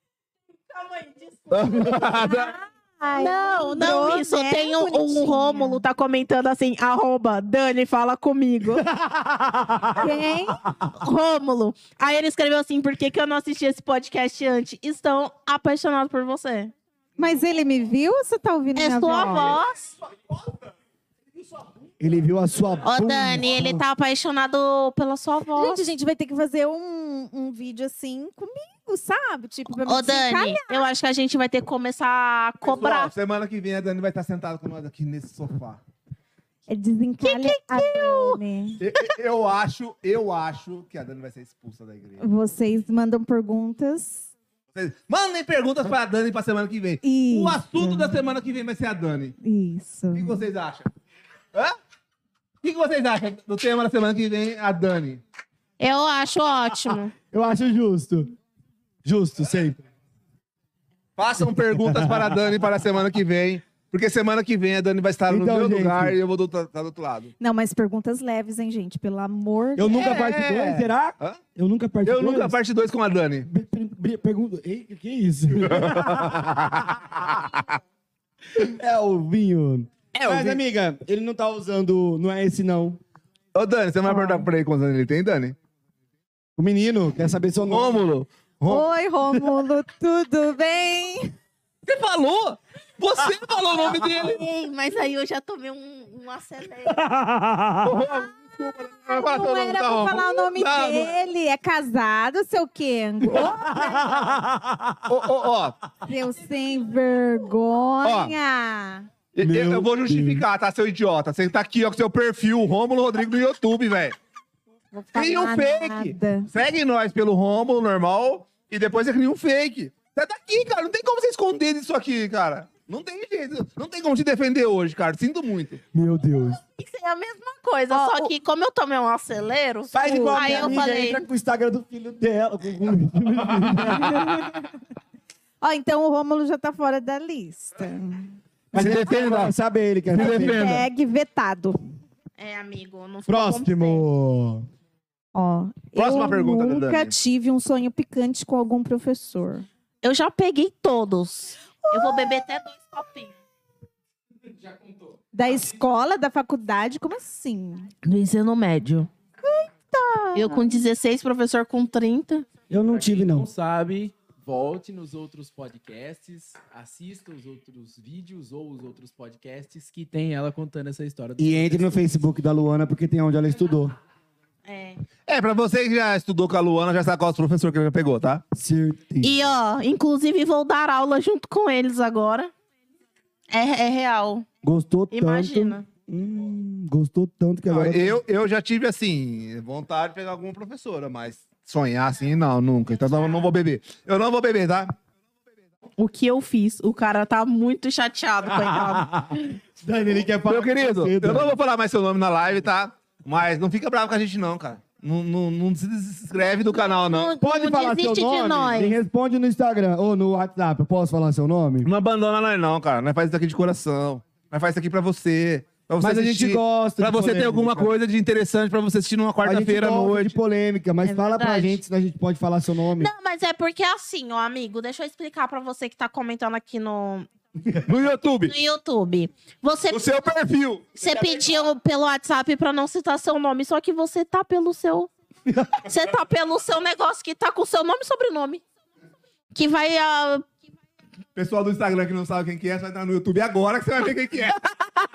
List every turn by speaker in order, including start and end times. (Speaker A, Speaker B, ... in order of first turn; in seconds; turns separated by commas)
Speaker A: 0.7-2.3, Speaker B: 1.5-2.5, Speaker C: 1.9-5.8, Speaker A: 3.1-8.9, Speaker D: 8.8-10.2, Speaker C: 9.9-10.6, Speaker A: 11.0-16.7, Speaker C: 17.2-19.6, Speaker A: 18.8-19.9, Speaker D: 22.0-23.8, Speaker A: 22.8-25.9, Speaker C: 25.6-30.9, Speaker A: 29.8-33.1, Speaker B: 32.6-35.8, Speaker C: 36.7-38.8, Speaker A: 37.2-38.4, Speaker B: 38.8-42.2, Speaker C: 42.2-44.2, Speaker B: 44.7-49.4, Speaker C: 47.0-48.2, Speaker C: 49.4-50.4, Speaker B: 50.1-50.9, Speaker B: 52.6-55.2, Speaker A: 55.8-57.1, Speaker D: 57.3-58.3, Speaker D: 59.0-59.8, Speaker B: 61.2-67.3, Speaker D: 61.5-62.4, Speaker D: 65.3-66.2, Speaker C: 67.4-70.0, Speaker D: 69.8-72.5, Speaker B: 69.9-71.4, Speaker B: 72.0-73.5, Speaker D: 73.5-77.2, Speaker B: 75.6-77.5, Speaker D: 78.5-83.0, Speaker B: 80.1-80.6, Speaker B: 83.5-85.5, Speaker D: 86.6-88.0, Speaker B: 87.7-88.9, Speaker C: 88.7-91.3, Speaker B: 91.8-94.4, Speaker A: 93.9-97.0, Speaker D: 96.8-98.0, Speaker B: 97.8-101.1, Speaker C: 99.1-104.4, Speaker D: 103.3-105.2, Speaker B: 105.1-105.8, Speaker C: 106.0-109.1, Speaker B: 108.0-108.3, Speaker B: 109.3-114.2, Speaker D: 109.4-110.4, Speaker C: 114.9-116.5, Speaker B: 115.1-125.8, Speaker D: 125.9-126.6, Speaker A: 126.8-131.2, Speaker C: 127.9-128.3, Speaker D: 129.9-134.4, Speaker C: 129.9-130.8, Speaker C: 133.8-134.6, Speaker C: 135.6-138.3, Speaker D: 138.7-140.7, Speaker B: 138.7-139.5, Speaker B: 140.1-140.9, Speaker C: 140.1-141.8, Speaker A: 142.4-144.1, Speaker D: 143.3-144.7, Speaker C: 145.3-149.7, Speaker B: 145.9-147.1, Speaker A: 150.0-153.3, Speaker C: 151.8-152.4, Speaker C: 155.3-157.9, Speaker A: 158.0-159.1, Speaker C: 159.4-160.8, Speaker A: 160.3-162.4, Speaker D: 162.7-163.5, Speaker E: 162.9-172.1, Speaker D: 171.4-173.9, Speaker A: 174.6-175.0, Speaker B: 175.3-178.4, Speaker D: 178.5-179.3, Speaker A: 179.2-182.5, Speaker A: 183.5-184.4, Speaker D: 184.6-188.2, Speaker A: 185.1-185.8, Speaker B: 187.7-194.9, Speaker A: 196.0-199.1, Speaker D: 198.7-201.5, Speaker B: 200.4-207.3, Speaker A: 206.7-208.9, Speaker D: 207.4-211.9, Speaker B: 211.8-220.4, Speaker D: 216.0-217.9, Speaker D: 219.4-223.1, Speaker A: 221.0-221.8, Speaker A: 223.0-227.3, Speaker D: 227.6-227.8, Speaker B: 227.8-228.5, Speaker A: 228.4-230.2, Speaker B: 229.9-231.3, Speaker A: 231.0-235.1, Speaker A: 235.8-238.6, Speaker A: 239.5-240.4, Speaker B: 241.3-244.7